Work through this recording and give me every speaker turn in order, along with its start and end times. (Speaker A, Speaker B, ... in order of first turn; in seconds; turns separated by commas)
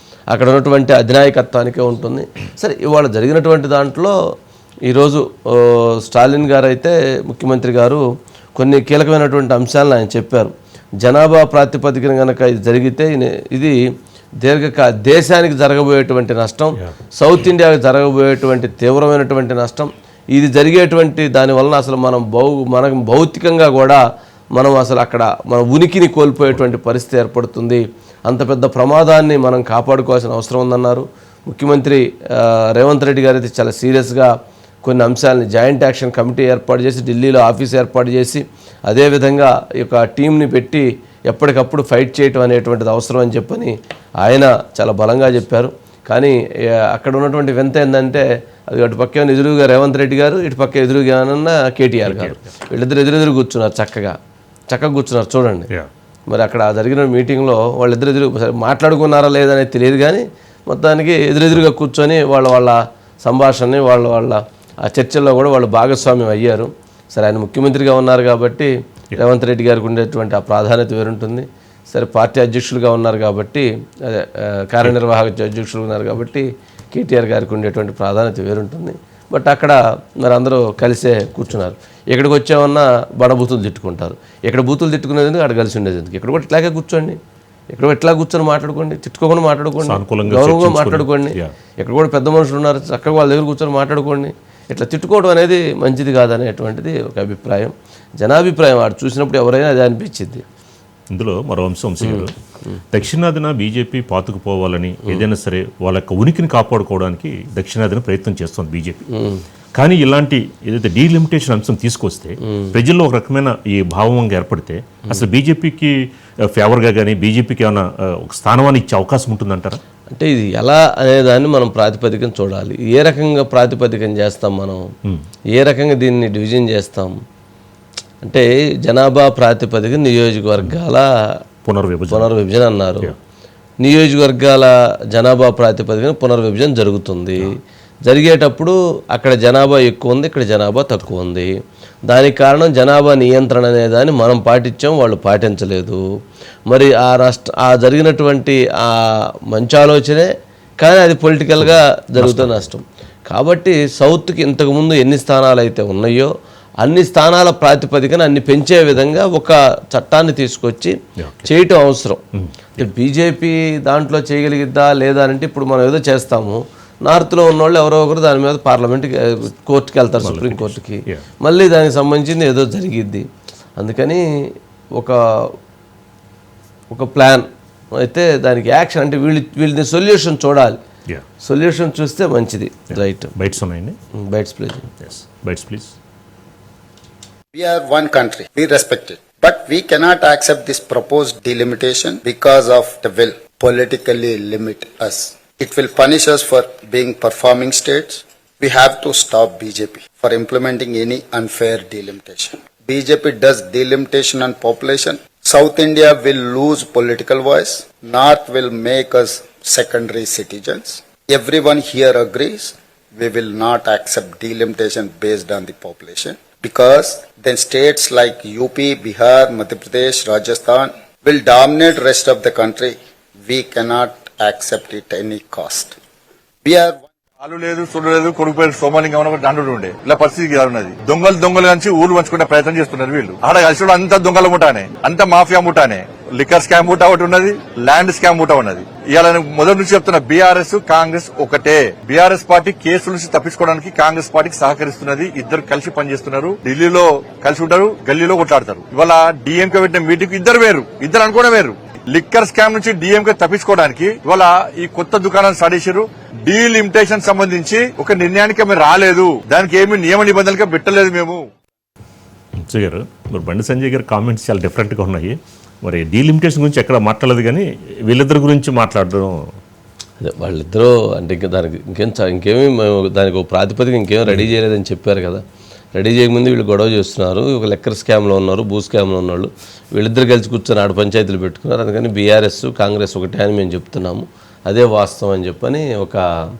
Speaker A: 0.3-4.1, Speaker A: 4.9-8.0, Speaker A: 8.6-13.8, Speaker A: 14.4-24.0, Speaker A: 24.5-34.3, Speaker A: 34.8-54.1, Speaker B: 52.1-52.4, Speaker A: 54.7-55.7, Speaker A: 56.3-87.2, Speaker A: 87.7-100.4, Speaker B: 89.8-91.5, Speaker B: 101.1-102.3, Speaker A: 102.0-102.3, Speaker B: 102.9-109.0, Speaker A: 109.1-109.4, Speaker B: 109.8-115.9, Speaker B: 116.5-119.8, Speaker A: 120.1-124.8, Speaker A: 125.5-127.1, Speaker A: 128.2-131.1, Speaker B: 131.6-132.3, Speaker A: 132.1-133.1, Speaker A: 133.8-141.5, Speaker A: 142.1-146.0, Speaker A: 146.7-148.9, Speaker A: 149.5-150.3, Speaker A: 150.8-156.3, Speaker B: 151.6-152.7, Speaker A: 156.8-162.2, Speaker B: 161.2-161.5, Speaker B: 162.3-162.8, Speaker A: 162.8-173.3, Speaker B: 170.2-171.3, Speaker A: 173.8-174.2, Speaker A: 176.9-177.4, Speaker A: 178.0-180.8, Speaker A: 181.4-183.3, Speaker B: 182.9-184.0, Speaker A: 184.2-184.9, Speaker B: 185.0-185.9, Speaker C: 187.5-226.0, Speaker C: 226.6-227.0, Speaker D: 227.4-261.5, Speaker B: 262.6-269.3, Speaker A: 270.2-275.4, Speaker A: 275.9-286.2